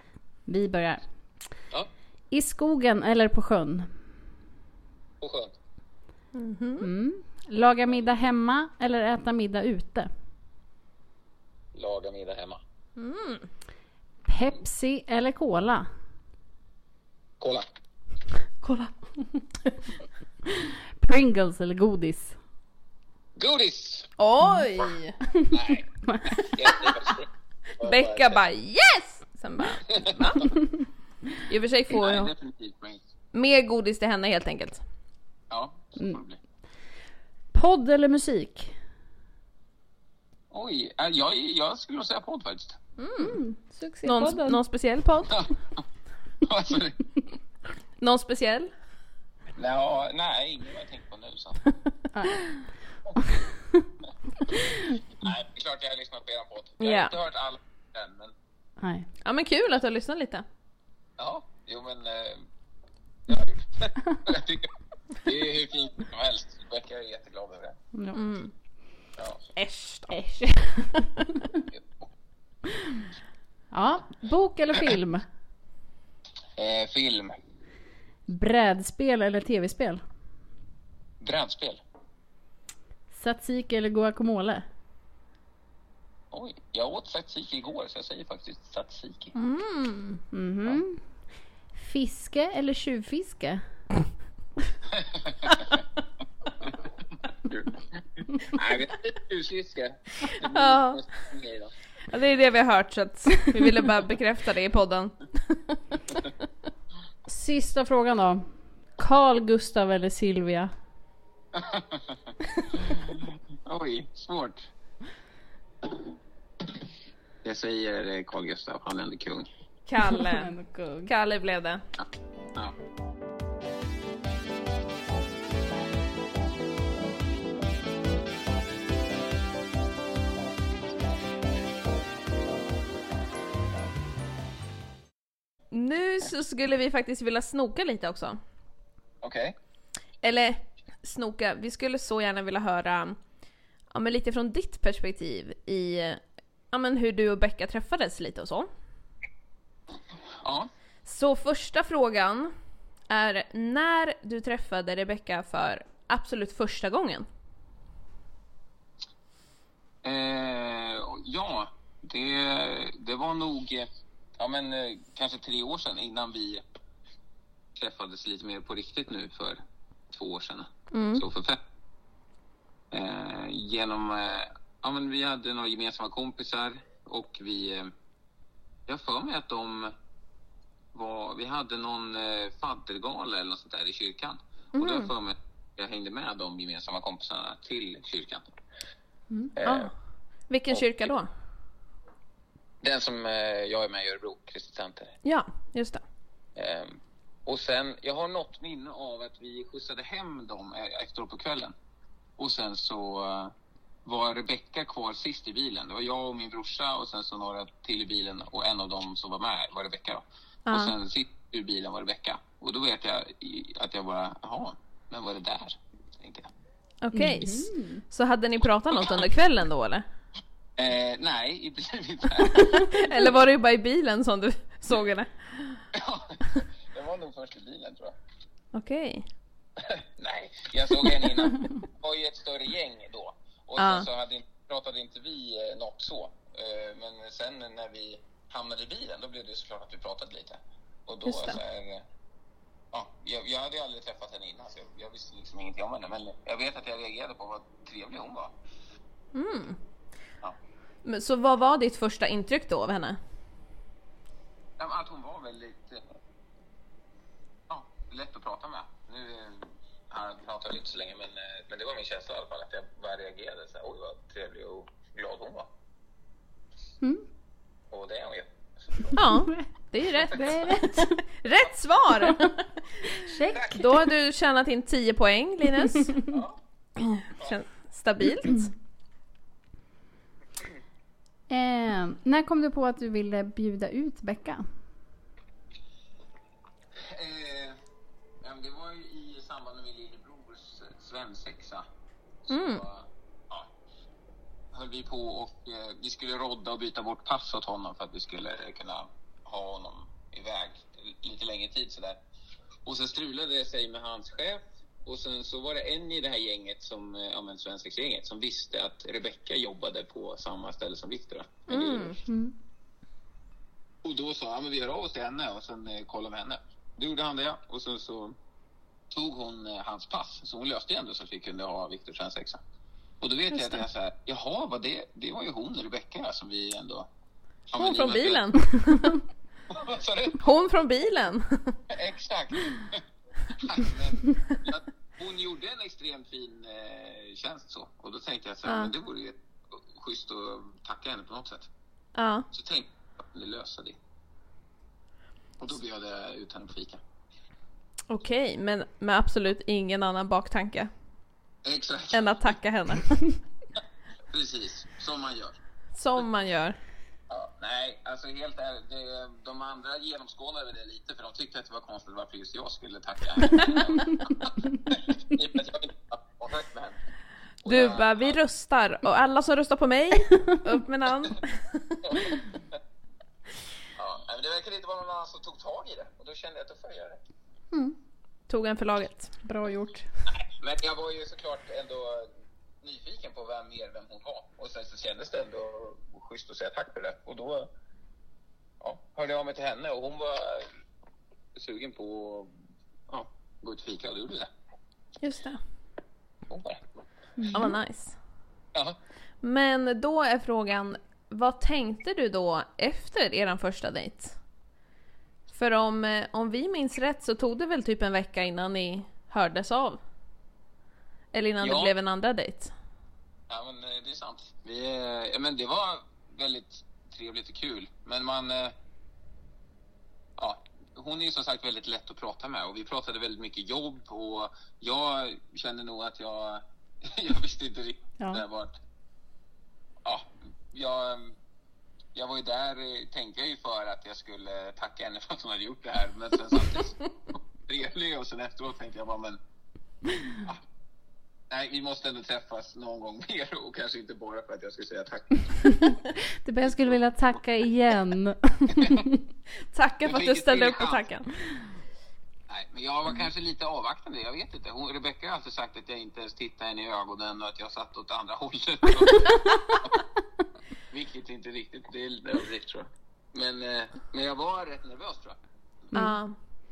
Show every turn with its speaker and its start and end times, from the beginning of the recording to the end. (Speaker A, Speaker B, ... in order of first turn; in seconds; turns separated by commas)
Speaker A: 0.5-1.1, Speaker A: 2.3-4.0, Speaker B: 5.2-5.5, Speaker C: 6.3-6.9, Speaker A: 6.8-10.1, Speaker B: 11.7-12.6, Speaker C: 13.0-13.5, Speaker A: 14.3-15.9, Speaker B: 17.4-17.7, Speaker A: 18.6-19.8, Speaker A: 20.5-22.4, Speaker B: 23.4-24.1, Speaker C: 24.2-25.2, Speaker B: 25.5-28.4, Speaker C: 27.8-30.6, Speaker B: 29.9-30.2, Speaker C: 31.5-32.3, Speaker B: 31.9-33.0, Speaker C: 33.3-34.8, Speaker B: 35.5-36.4, Speaker A: 37.5-38.7, Speaker B: 40.5-42.8, Speaker C: 43.0-43.4, Speaker A: 43.2-44.6, Speaker C: 44.0-45.5, Speaker B: 45.3-45.8, Speaker B: 46.4-47.0, Speaker C: 48.0-48.7, Speaker B: 49.6-51.6, Speaker A: 52.1-52.5, Speaker B: 53.0-53.3, Speaker B: 55.2-58.3, Speaker C: 56.8-57.1, Speaker A: 58.8-59.1, Speaker C: 59.2-60.5, Speaker B: 61.2-62.5, Speaker B: 63.3-67.8, Speaker C: 68.1-68.5, Speaker C: 69.6-70.3, Speaker A: 70.1-71.0, Speaker B: 71.7-72.1, Speaker A: 73.7-75.2, Speaker B: 76.6-77.3, Speaker A: 78.3-80.0, Speaker B: 81.2-81.8, Speaker A: 83.1-84.7, Speaker B: 86.3-89.3, Speaker C: 89.4-90.2, Speaker A: 90.3-91.0, Speaker A: 91.8-93.6, Speaker B: 94.9-95.8, Speaker B: 97.4-101.7, Speaker C: 100.3-101.0, Speaker C: 102.1-106.3, Speaker A: 107.3-110.7, Speaker B: 111.5-114.7, Speaker B: 117.4-119.5, Speaker C: 119.9-120.5, Speaker A: 120.1-121.1, Speaker C: 121.0-121.8, Speaker B: 122.0-122.7, Speaker C: 135.7-138.4, Speaker B: 139.2-139.6, Speaker C: 140.2-143.2, Speaker C: 143.9-148.7, Speaker B: 150.3-150.7, Speaker C: 151.1-152.5, Speaker C: 153.1-157.3, Speaker B: 160.0-166.6, Speaker B: 167.8-169.6, Speaker B: 170.1-171.6, Speaker C: 170.9-171.2, Speaker B: 172.9-177.9, Speaker B: 178.9-179.9, Speaker B: 180.9-188.6, Speaker C: 184.7-185.1, Speaker B: 189.6-189.9, Speaker C: 189.6-189.9, Speaker C: 190.5-191.3, Speaker B: 190.7-191.1, Speaker B: 192.8-195.2, Speaker C: 195.2-196.0, Speaker B: 196.6-201.7, Speaker B: 202.4-203.5, Speaker B: 204.1-216.5, Speaker C: 210.7-210.9, Speaker C: 217.0-220.1, Speaker A: 217.1-218.0, Speaker B: 220.8-223.4, Speaker C: 222.5-225.8, Speaker B: 225.9-228.2, Speaker C: 228.7-229.3, Speaker B: 229.8-242.1, Speaker C: 233.8-234.1, Speaker C: 241.3-241.6, Speaker B: 242.9-248.6, Speaker C: 249.3-249.8, Speaker C: 251.1-253.2, Speaker B: 254.8-256.2, Speaker B: 257.7-265.7, Speaker B: 267.9-269.2, Speaker C: 269.1-272.7, Speaker A: 270.2-271.2, Speaker A: 273.1-273.9, Speaker B: 273.4-273.9, Speaker C: 273.8-276.1, Speaker B: 276.3-276.6, Speaker C: 277.0-278.7, Speaker A: 281.5-284.7, Speaker B: 286.9-287.8, Speaker B: 288.4-291.9, Speaker B: 292.5-293.7, Speaker C: 292.5-292.8, Speaker B: 294.7-302.2, Speaker B: 302.9-312.2, Speaker C: 311.7-312.2, Speaker A: 312.3-312.6, Speaker B: 314.0-318.4, Speaker B: 319.1-322.6, Speaker B: 323.2-327.1, Speaker C: 323.5-323.8, Speaker B: 327.7-328.5, Speaker C: 327.8-329.2, Speaker B: 329.7-330.4, Speaker C: 330.4-331.8, Speaker B: 331.9-341.7, Speaker C: 338.6-338.9, Speaker C: 342.1-342.5, Speaker B: 342.5-344.0, Speaker B: 345.6-347.0, Speaker C: 348.1-350.9, Speaker B: 351.6-352.6, Speaker C: 352.1-353.4, Speaker B: 354.3-355.6, Speaker C: 355.9-356.8, Speaker B: 357.3-367.0, Speaker C: 363.5-363.8, Speaker B: 367.6-368.4, Speaker C: 367.7-372.3, Speaker B: 372.0-372.8, Speaker B: 374.0-377.2, Speaker A: 377.7-378.0, Speaker C: 378.5-379.3, Speaker A: 379.4-380.1, Speaker B: 380.3-387.7, Speaker B: 388.8-390.7, Speaker B: 391.6-392.5, Speaker B: 393.1-394.5, Speaker C: 395.2-395.6, Speaker B: 396.5-396.8, Speaker A: 397.4-397.7, Speaker C: 397.5-398.2, Speaker C: 399.4-404.4, Speaker C: 405.5-410.0, Speaker C: 411.3-412.7, Speaker B: 411.6-411.9, Speaker B: 413.5-418.7, Speaker B: 420.4-428.8, Speaker B: 430.0-431.4, Speaker B: 432.1-439.4, Speaker B: 441.5-446.0, Speaker A: 445.7-449.2, Speaker B: 446.7-446.9, Speaker B: 448.8-449.0, Speaker C: 449.7-451.3, Speaker B: 450.1-451.1, Speaker B: 452.5-460.0, Speaker B: 460.9-465.9, Speaker C: 465.9-466.4